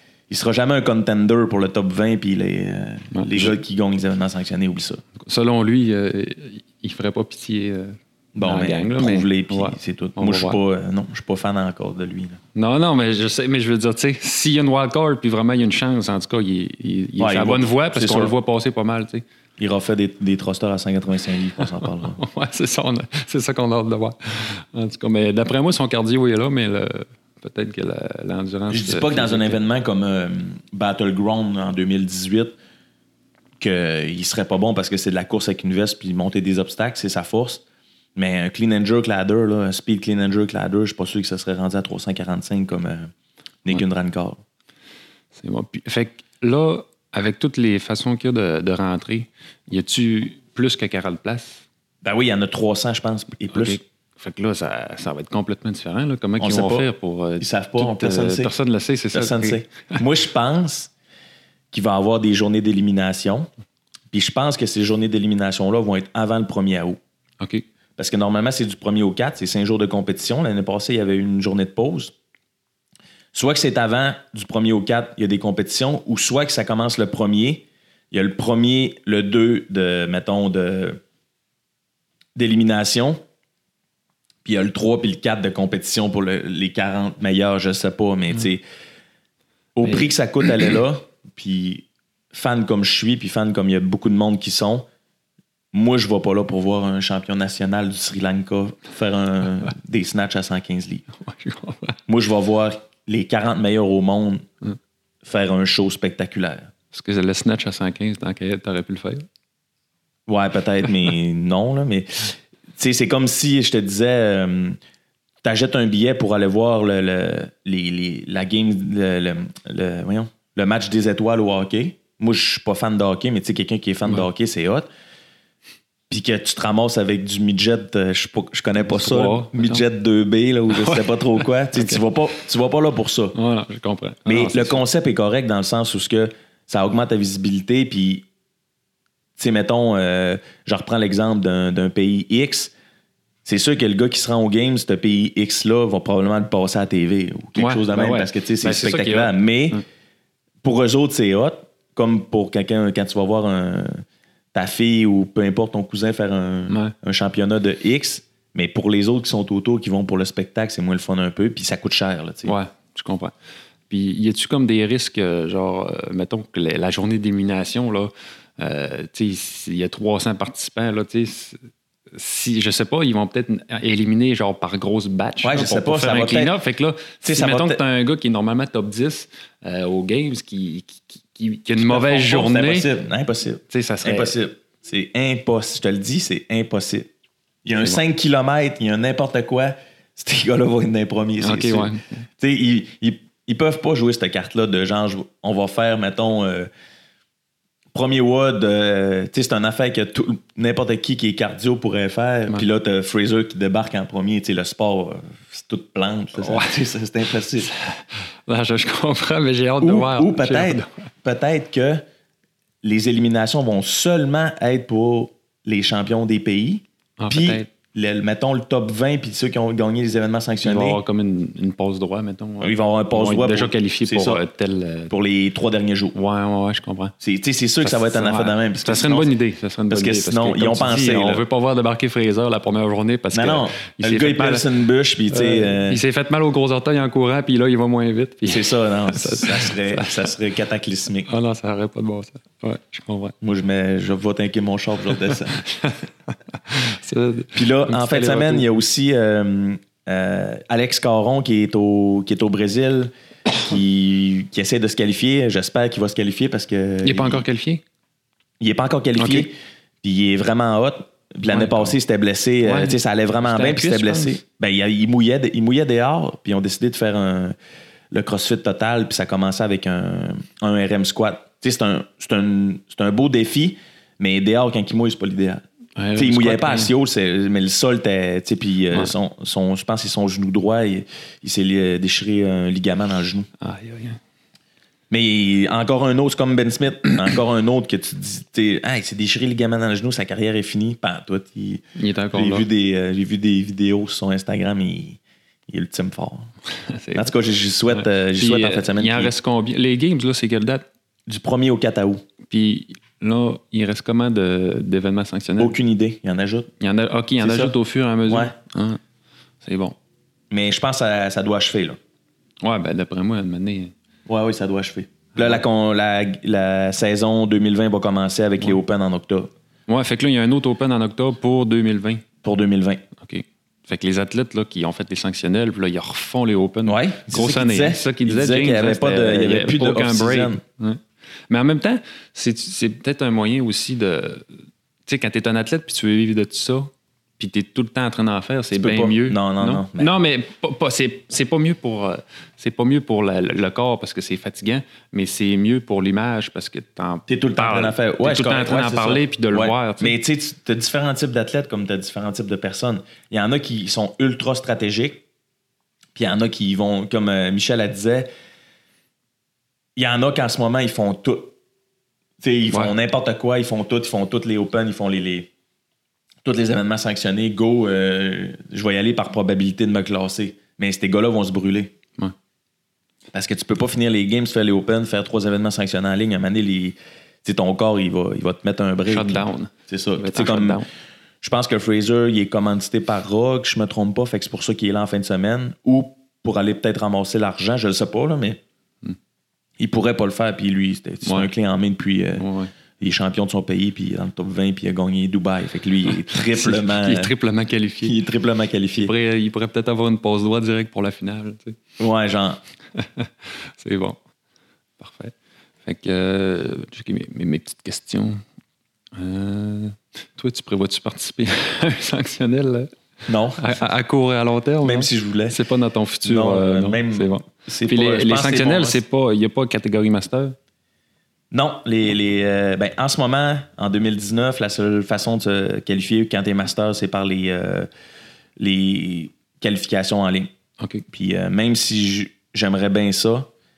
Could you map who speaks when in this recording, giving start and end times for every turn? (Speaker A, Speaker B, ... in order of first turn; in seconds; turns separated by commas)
Speaker A: 0.3-5.0, Speaker B: 3.1-3.6, Speaker B: 5.2-10.6, Speaker A: 8.3-12.4, Speaker B: 12.6-19.2, Speaker A: 17.2-18.3, Speaker A: 19.6-22.2, Speaker B: 21.6-29.6, Speaker A: 28.7-32.5, Speaker A: 33.6-37.6, Speaker A: 38.2-43.1, Speaker A: 43.6-44.4, Speaker B: 45.4-51.6, Speaker A: 52.0-53.8, Speaker B: 53.5-60.0, Speaker A: 56.4-56.9, Speaker A: 57.4-58.5, Speaker A: 59.1-60.9, Speaker A: 61.7-63.5, Speaker A: 64.1-67.0, Speaker B: 67.4-67.7, Speaker A: 68.0-72.1, Speaker A: 73.3-81.0, Speaker A: 82.3-83.2, Speaker A: 84.4-88.6, Speaker A: 89.8-94.9, Speaker A: 95.7-101.1, Speaker B: 101.2-102.0, Speaker A: 102.1-104.5, Speaker A: 105.2-106.7, Speaker B: 106.9-109.3, Speaker A: 110.3-114.8, Speaker A: 115.4-124.9, Speaker A: 126.1-133.3, Speaker B: 128.8-129.8, Speaker B: 130.7-132.0, Speaker B: 133.3-134.8, Speaker A: 134.3-138.2, Speaker A: 139.4-142.7, Speaker A: 143.4-149.8, Speaker B: 147.6-149.8, Speaker A: 150.6-154.0, Speaker A: 154.5-162.6, Speaker B: 156.7-156.9, Speaker B: 162.4-163.3, Speaker B: 163.9-171.6, Speaker B: 172.1-182.9, Speaker A: 175.4-176.5, Speaker A: 177.2-177.8, Speaker A: 181.8-187.1, Speaker B: 183.7-184.3, Speaker A: 187.7-196.7, Speaker B: 191.4-192.2, Speaker A: 197.9-207.7, Speaker B: 206.4-206.8, Speaker B: 207.6-211.1, Speaker A: 209.8-212.0, Speaker A: 212.8-221.0, Speaker B: 217.2-217.7, Speaker B: 220.6-225.1, Speaker A: 222.6-224.4, Speaker A: 225.1-226.2, Speaker B: 226.1-227.1, Speaker A: 227.2-229.3, Speaker B: 227.8-234.7, Speaker A: 229.9-231.4, Speaker A: 233.3-236.0, Speaker B: 235.3-240.3, Speaker A: 238.5-241.3, Speaker B: 241.3-243.3, Speaker A: 243.4-245.6, Speaker B: 245.3-248.7, Speaker A: 247.5-257.4, Speaker B: 257.0-257.8, Speaker A: 258.6-267.6, Speaker B: 259.2-259.5, Speaker B: 261.5-261.9, Speaker B: 262.6-264.4, Speaker A: 268.1-275.6, Speaker B: 276.0-276.9, Speaker A: 276.2-283.5, Speaker B: 283.6-284.2, Speaker A: 285.1-296.5, Speaker B: 292.0-292.7, Speaker B: 296.8-297.3, Speaker A: 297.1-299.3, Speaker B: 297.9-300.9, Speaker A: 301.3-302.2, Speaker B: 302.5-305.8, Speaker A: 305.6-306.7, Speaker B: 306.8-309.0, Speaker A: 307.4-307.7, Speaker A: 308.3-308.5, Speaker B: 309.6-310.0, Speaker A: 310.5-312.0, Speaker B: 312.6-313.9, Speaker A: 314.3-319.5, Speaker B: 315.4-315.6, Speaker B: 319.9-322.2, Speaker A: 322.4-323.0, Speaker B: 323.2-334.5, Speaker A: 326.9-330.6, Speaker B: 335.1-350.2, Speaker A: 338.8-340.1, Speaker A: 347.3-355.2, Speaker A: 356.2-358.3, Speaker A: 360.0-361.5, Speaker A: 362.4-365.5, Speaker A: 366.4-371.9, Speaker A: 373.3-380.8, Speaker B: 379.1-380.9, Speaker A: 381.4-388.6, Speaker A: 389.8-392.4, Speaker B: 391.2-391.5, Speaker B: 392.4-392.7, Speaker A: 393.0-397.3, Speaker B: 396.3-398.2, Speaker A: 398.0-399.1, Speaker B: 399.0-401.8, Speaker A: 402.0-402.6, Speaker B: 402.9-404.2, Speaker B: 405.0-405.3, Speaker B: 405.9-408.4, Speaker B: 409.2-412.9, Speaker A: 413.3-413.7, Speaker B: 413.6-420.6, Speaker A: 414.8-415.6, Speaker A: 416.2-419.0, Speaker A: 421.5-427.9, Speaker A: 428.6-430.5, Speaker B: 430.8-431.0, Speaker A: 431.1-433.5